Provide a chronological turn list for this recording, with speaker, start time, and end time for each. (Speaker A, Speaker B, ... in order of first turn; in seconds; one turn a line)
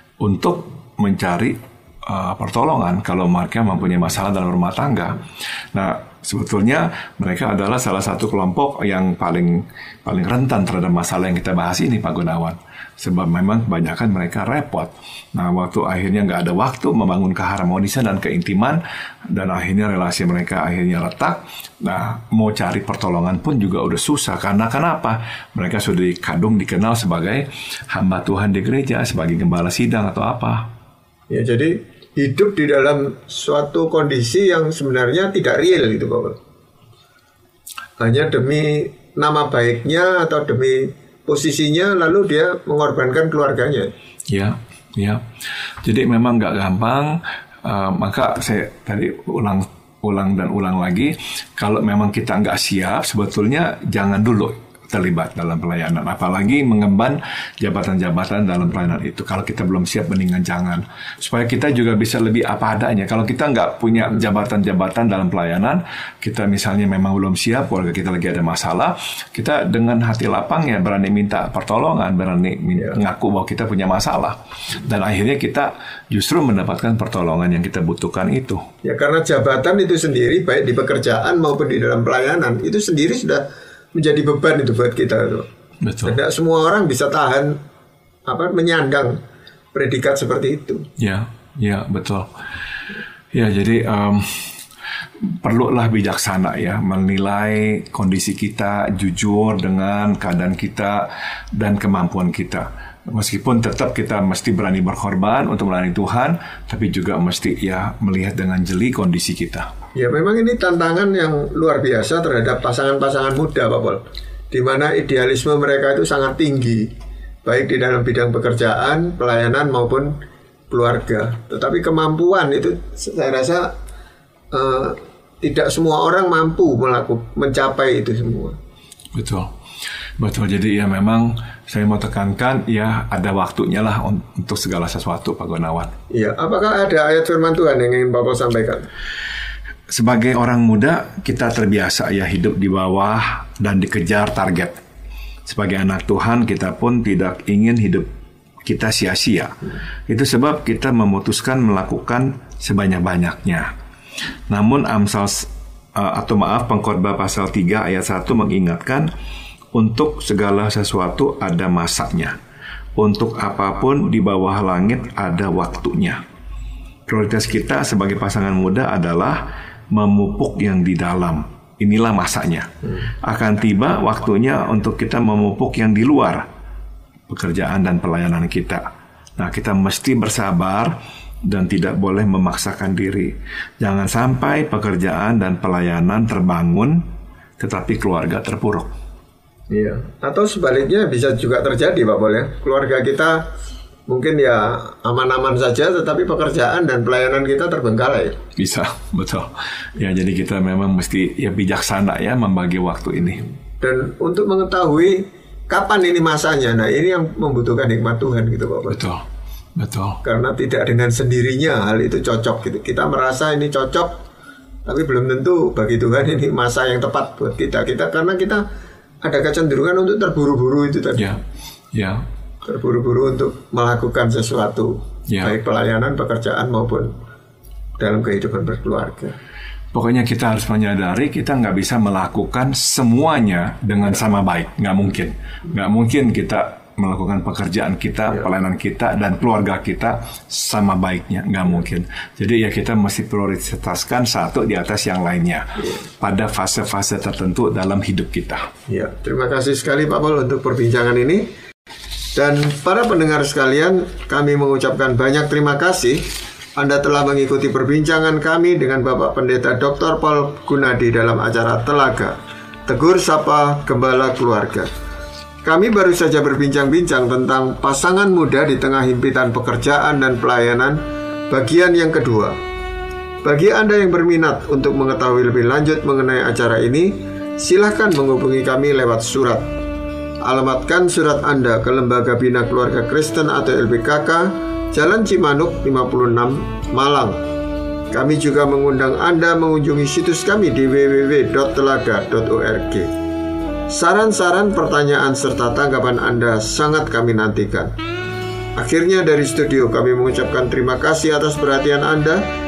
Speaker A: 0.2-30.7
Speaker B: 31.3-36.4
Speaker B: 38.0-43.9
Speaker A: 44.3-45.2
Speaker A: 45.8-78.6
Speaker B: 78.8-85.5
Speaker A: 85.8-86.2
Speaker B: 86.0-87.6
Speaker B: 88.3-89.2
Speaker B: 89.7-90.9
Speaker A: 91.0-92.3
Speaker A: 93.3-94.6
Speaker A: 95.2-109.7
Speaker B: 109.9-116.9
Speaker B: 117.4-120.2
Speaker B: 120.7-123.7
Speaker B: 124.5-128.6
Speaker A: 129.1-129.5
Speaker A: 130.2-135.9
Speaker B: 136.1-138.9
Speaker A: 139.9-144.8
Speaker A: 145.4-148.1
Speaker A: 148.7-153.7
Speaker A: 154.5-159.1
Speaker A: 159.7-162.4
Speaker A: 162.9-166.2
Speaker A: 167.1-176.5
Speaker A: 177.3-178.8
Speaker A: 179.4-187.0
Speaker A: 187.6-188.9
Speaker B: 189.7-193.5
Speaker B: 194.1-198.4
Speaker A: 198.6-203.5
Speaker B: 203.8-209.0
Speaker A: 208.9-209.2
Speaker A: 209.8-210.2
Speaker B: 210.2-214.2
Speaker B: 214.8-218.6
Speaker B: 219.2-221.4
Speaker A: 221.9-222.2
Speaker B: 222.6-227.2
Speaker B: 228.0-229.3
Speaker A: 229.9-248.7
Speaker B: 248.9-251.5
Speaker B: 252.3-262.3
Speaker B: 262.9-264.9
Speaker B: 265.6-272.6
Speaker B: 273.4-279.7
Speaker B: 280.4-287.4
Speaker B: 288.1-293.1
Speaker B: 293.9-297.9
Speaker B: 298.8-302.4